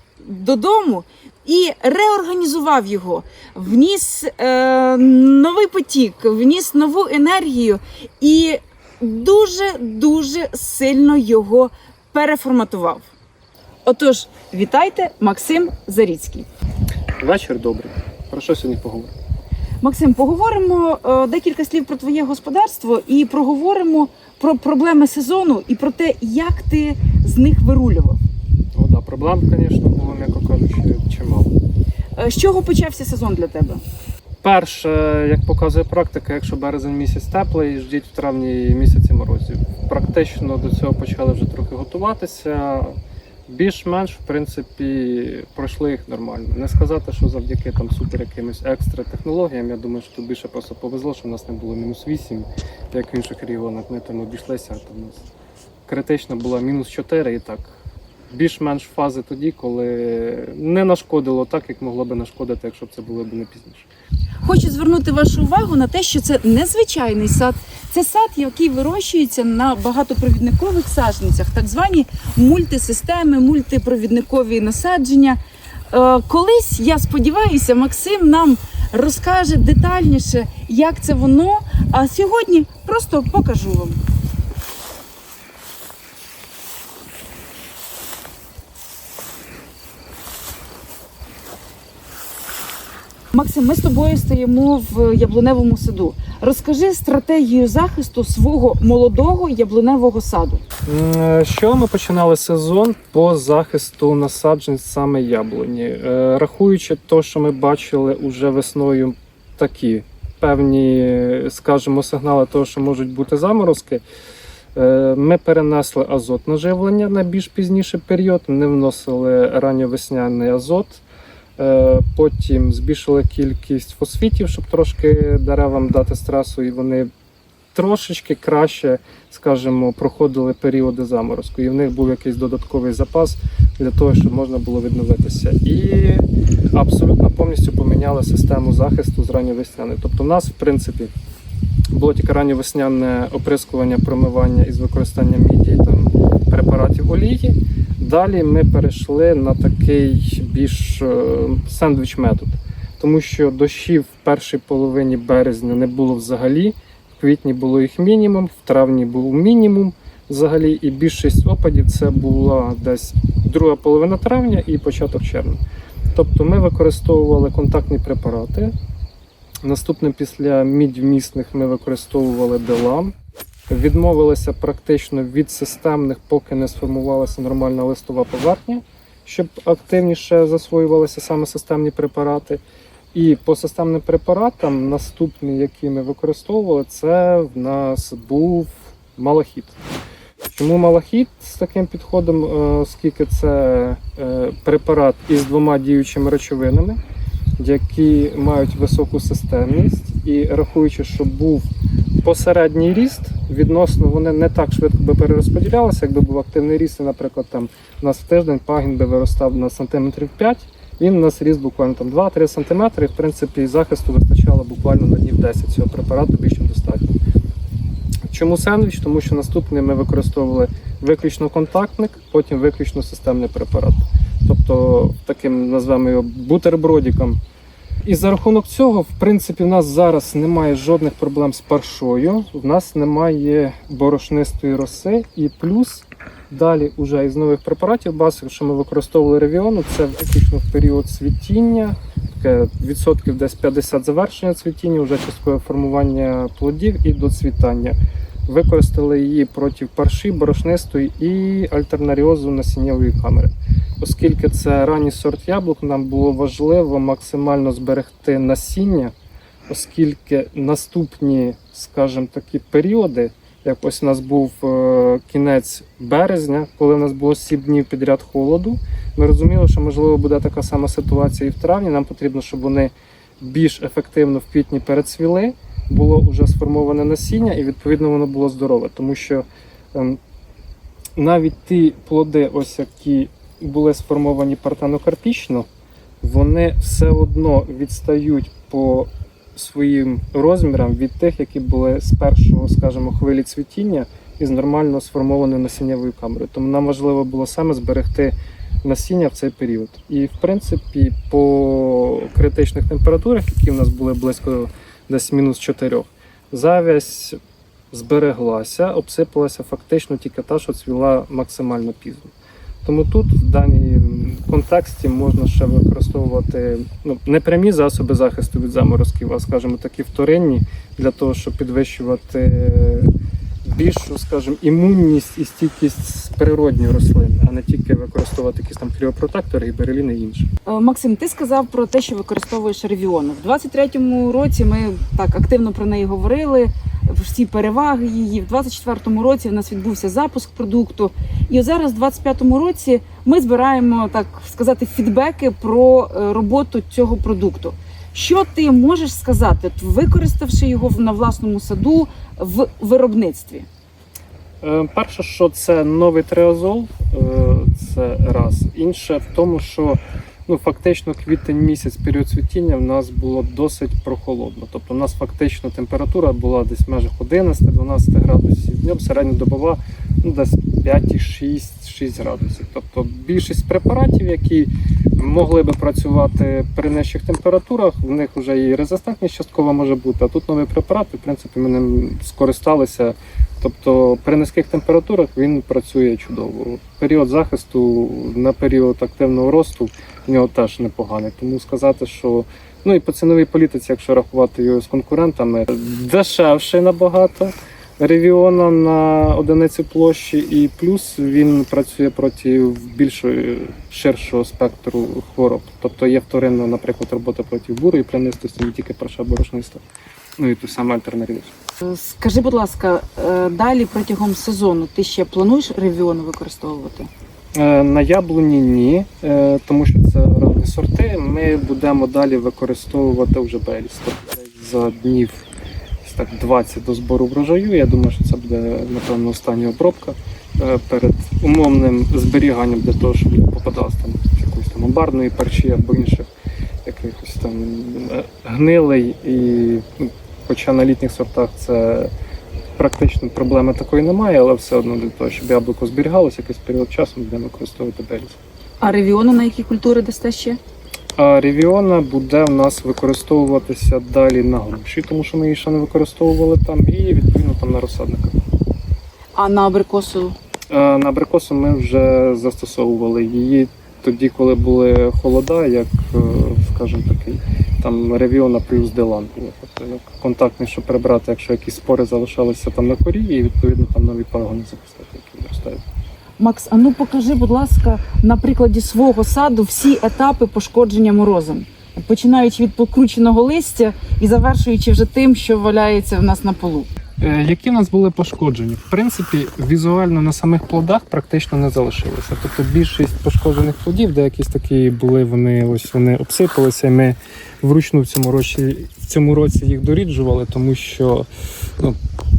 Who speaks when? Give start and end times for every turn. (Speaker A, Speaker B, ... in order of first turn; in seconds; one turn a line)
Speaker A: 0.2-13.1
Speaker A: 13.8-16.5
Speaker B: 17.2-19.1
Speaker A: 19.8-28.2
Speaker B: 28.8-31.6
Speaker A: 32.2-33.8
Speaker B: 34.4-55.3
Speaker B: 55.9-57.7
Speaker B: 58.3-63.9
Speaker A: 64.4-75.4
Speaker A: 75.9-84.0
Speaker A: 93.3-100.6
Speaker B: 100.9-114.0
Speaker B: 114.8-121.0
Speaker B: 121.6-127.1
Speaker B: 127.7-141.1
Speaker B: 141.9-165.6
Speaker B: 166.1-168.8
Speaker B: 169.6-173.2
Speaker B: 173.7-182.6
Speaker B: 183.1-189.8
Speaker B: 190.5-197.0
Speaker B: 197.6-201.7
Speaker B: 202.2-217.2
Speaker B: 218.3-227.4
Speaker B: 228.1-259.1
Speaker B: 259.7-280.2
Speaker B: 281.2-285.7
Speaker B: 286.2-307.4
Speaker B: 307.9-312.3
Speaker B: 312.8-323.1
Speaker B: 323.6-330.5
Speaker A: 330.7-353.7
Speaker B: 354.6-409.8
Speaker B: 410.4-411.5
Speaker A: 411.8-417.1
Speaker B: 417.6-425.5
Speaker B: 426.0-436.3
Speaker B: 436.9-442.1
Speaker B: 442.8-448.4
Speaker A: 448.8-450.6
Speaker B: 451.2-458.4
Speaker A: 459.4-460.4
Speaker B: 460.7-475.8
Speaker A: 476.4-486.9
Speaker B: 487.2-502.0